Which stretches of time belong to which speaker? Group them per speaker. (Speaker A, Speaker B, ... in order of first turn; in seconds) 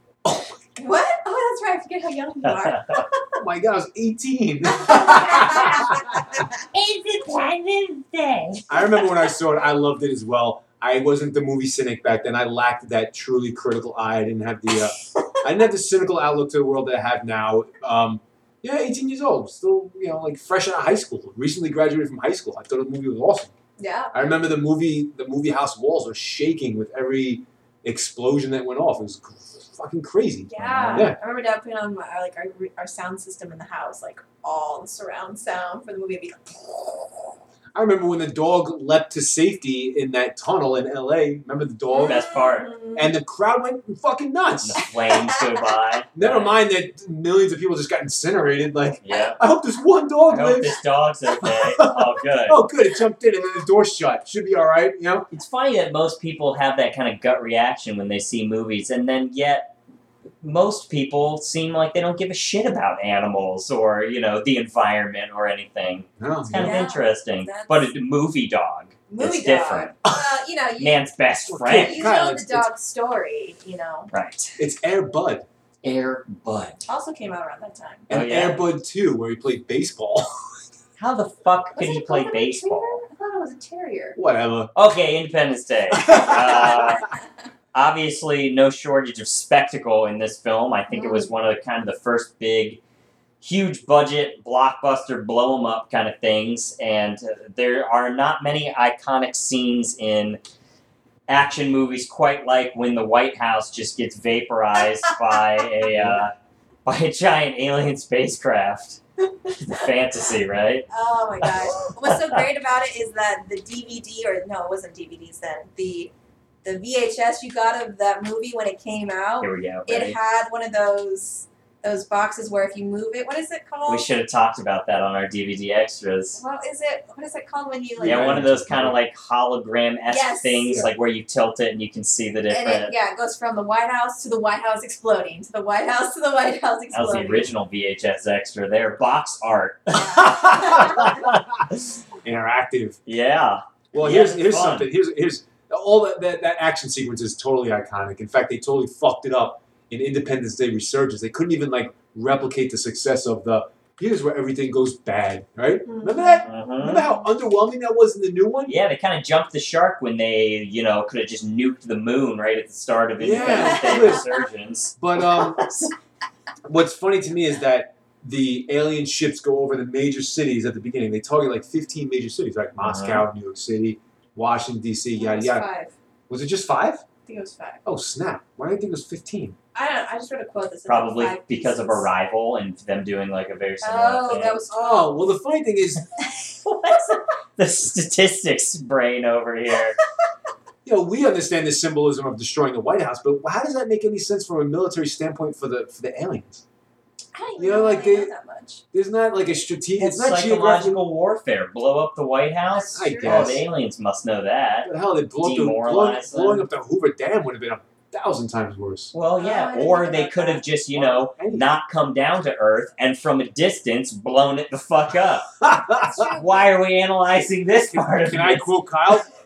Speaker A: 0.2-0.5, 3.4-6.4, 8.7-23.5, 24.1-31.2, 37.7-42.3, 42.9-44.8, 46.1-50.8, 51.4-55.3, 66.2-66.8, 71.4-72.7, 74.6-75.5, 78.1-80.3, 84.2-84.7, 85.9-86.9, 106.0-106.2, 128.0-129.0, 140.6-141.6, 142.2-143.0, 143.9-158.8, 163.2-164.3, 165.0-165.6, 166.6-175.7, 176.3-177.0, 177.8-179.6, 184.7-186.0, 190.8-196.6, 197.6-198.3, 198.9-201.0, 202.9-203.7, 204.8-209.1, 210.9-211.7, 215.6-216.3, 217.9-219.2
Speaker B: 0.8-3.3, 4.8-6.6, 23.8-24.1, 30.5-37.2, 41.9-43.1, 45.0-45.4, 66.5-67.9, 69.1-71.0, 71.6-74.1, 76.9-78.1, 81.7-84.2, 90.9-91.3, 110.9-116.1, 116.6-124.1, 126.4-128.4, 130.1-130.8, 132.5-137.5, 139.9-141.2, 155.8-156.4, 163.4-164.4, 175.2-175.9, 177.2-177.8, 179.7-182.1, 183.8-185.3, 197.3-198.8, 202.7-203.6, 209.4-210.6, 215.9-216.7
Speaker C: 2.4-3.0, 6.7-9.1, 30.8-31.1, 42.0-42.8, 44.6-46.6, 49.0-49.4, 50.3-52.6, 55.3-59.7, 60.4-69.9, 70.8-72.0, 74.1-74.6, 75.8-76.8, 78.1-78.7, 81.0-83.0, 84.7-87.0, 87.7-92.8, 93.4-100.4, 101.3-106.3, 106.8-109.0, 109.6-110.9, 111.4-112.4, 119.4-120.2, 123.9-126.4, 128.0-132.9, 136.9-141.4, 143.1-144.9, 156.4-157.1, 158.7-165.9, 172.8-173.2, 180.8-184.6, 186.6-190.0, 200.0-206.7, 209.1-215.5, 216.3-218.7